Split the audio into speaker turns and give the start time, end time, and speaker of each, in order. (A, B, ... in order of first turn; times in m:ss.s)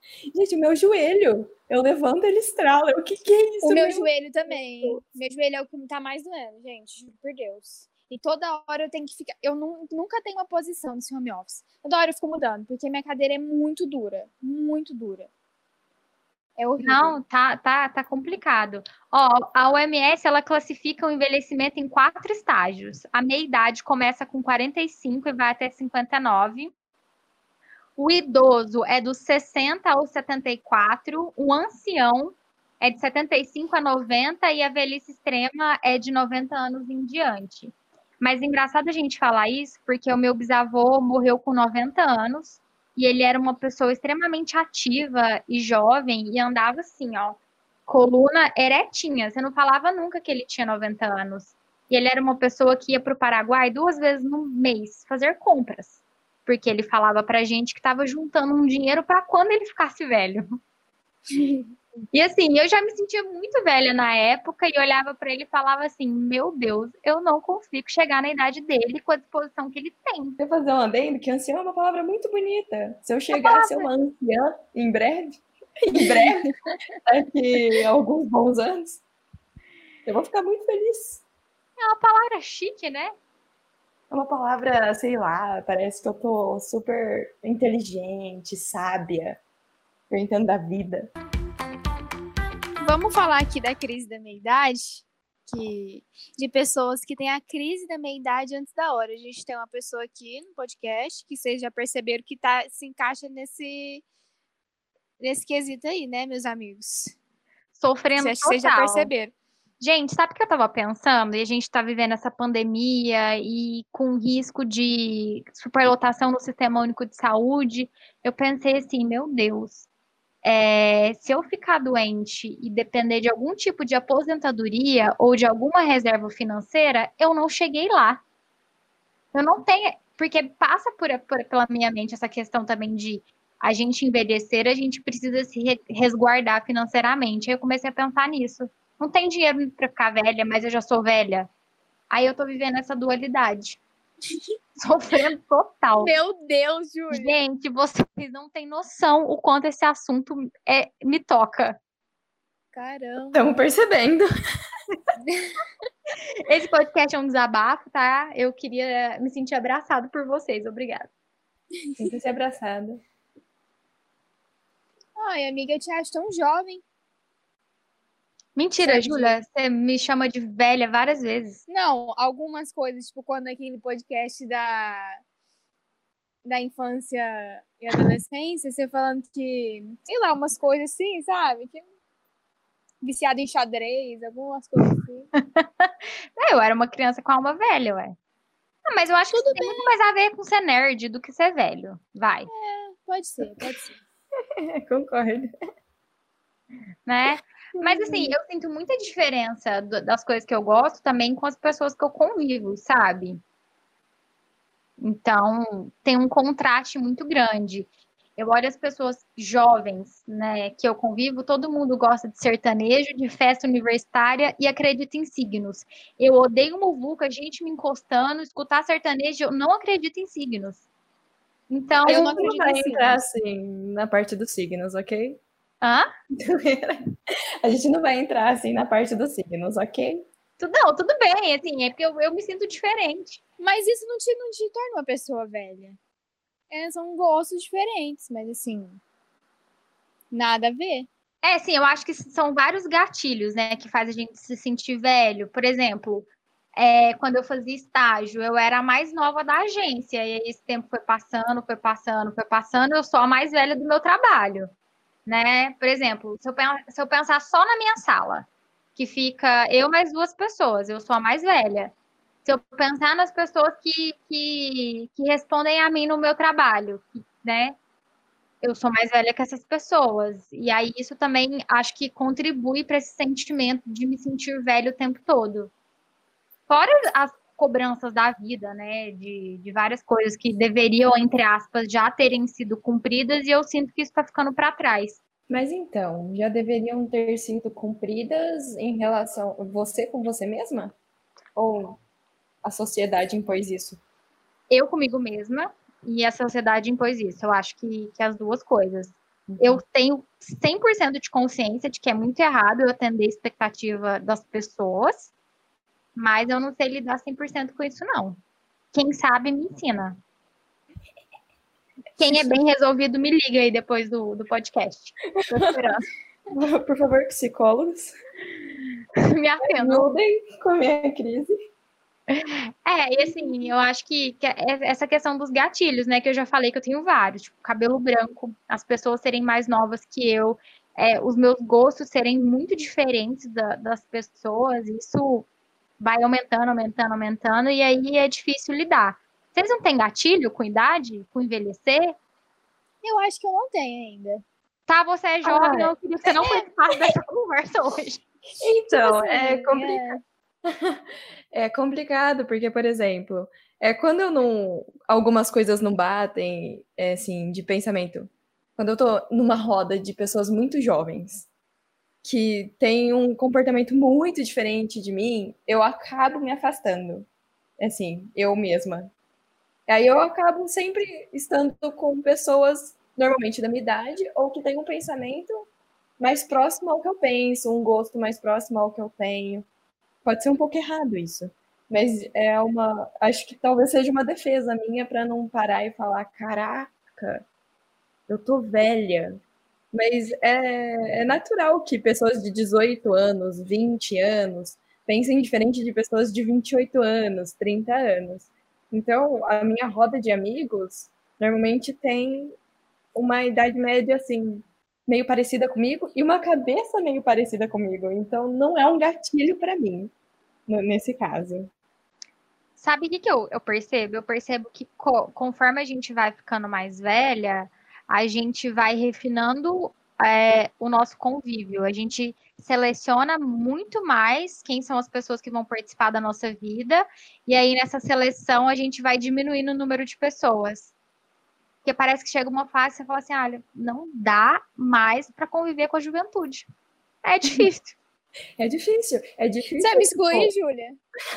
0:00.3-0:05.0 A
0:03.6-0:15.3 B
0:16.6-0:17.2 B
0:16.8-0:26.7 C
0:28.0-1:00.6 C
1:01.3-1:01.6 B
1:02.1-1:10.4 C
1:10.4-1:16.5 A
1:13.3-1:13.9 C
1:17.0-1:19.0 A
1:20.0-1:21.2 A
1:21.8-1:23.1 C
1:24.1-1:29.4 A
1:30.1-1:31.1 A
1:32.8-1:44.0 B
1:45.2-1:47.1 B
1:47.8-1:49.1 C
1:48.2-1:49.3 B
1:49.8-1:59.9 C
2:00.4-2:08.2 C
2:09.3-2:21.5 C
2:22.1-2:23.8 C
2:24.8-2:26.1 C
2:26.0-2:27.4 B
2:27.1-2:31.8 C
2:32.7-2:33.4 B
2:33.3-2:34.3 A
2:35.3-2:35.6 B
2:36.5-2:41.1 C
2:41.8-2:42.1 B
2:42.0-2:43.0 A
2:45.2-2:46.8 B
2:48.6-2:51.6 C
2:48.8-2:49.4 B
2:51.7-2:55.2 B
2:56.4-3:01.8 B
3:03.0-3:05.3 B
3:05.4-3:08.1 C
3:08.9-3:12.5 C
3:09.3-3:09.9 B
3:12.5-3:14.0 B
3:14.6-3:15.5 A
3:17.0-3:23.4 C
3:17.8-3:18.3 A
3:25.0-3:40.8 C
3:41.7-3:42.5 C
3:42.0-3:43.2 B
3:42.1-3:45.4 A
3:45.8-3:46.1 C
3:46.4-3:47.0 A
3:47.6-3:50.2 A
3:50.6-3:53.4 C
3:53.6-3:56.0 B
3:56.7-3:59.0 B
4:00.3-4:01.1 B
4:01.4-4:14.7 C
4:15.2-4:21.9 C
4:22.4-4:27.8 C
4:28.6-4:35.7 C
4:36.7-4:45.2 C
4:45.5-4:51.0 A
4:51.6-4:52.0 A
4:52.6-4:54.0 A
4:54.7-5:05.3 C
4:59.5-4:59.8 A
5:06.1-5:08.4 C
5:08.9-5:10.2 C
5:12.2-5:16.0 C
5:15.5-5:15.8 A
5:16.5-5:18.1 A
5:19.2-5:20.1 C
5:19.6-5:21.6 A
5:22.3-5:35.5 C
5:36.0-5:42.2 C
5:43.0-5:44.4 B
5:44.9-5:48.2 C
5:45.5-5:45.9 A
5:45.7-5:46.6 B
5:48.6-6:01.5 A
5:48.9-5:50.2 B
6:02.2-6:07.3 A
6:07.8-6:09.1 A
6:09.9-6:15.7 A
6:16.2-6:19.7 A
6:20.2-6:27.4 A
6:28.3-6:29.4 A
6:29.9-6:42.6 A
6:43.1-6:50.1 A
6:50.7-6:51.7 A
6:52.8-7:10.9 C
7:11.8-7:16.7 C
7:17.2-7:18.0 C
7:18.6-7:20.5 A
7:19.8-7:21.0 B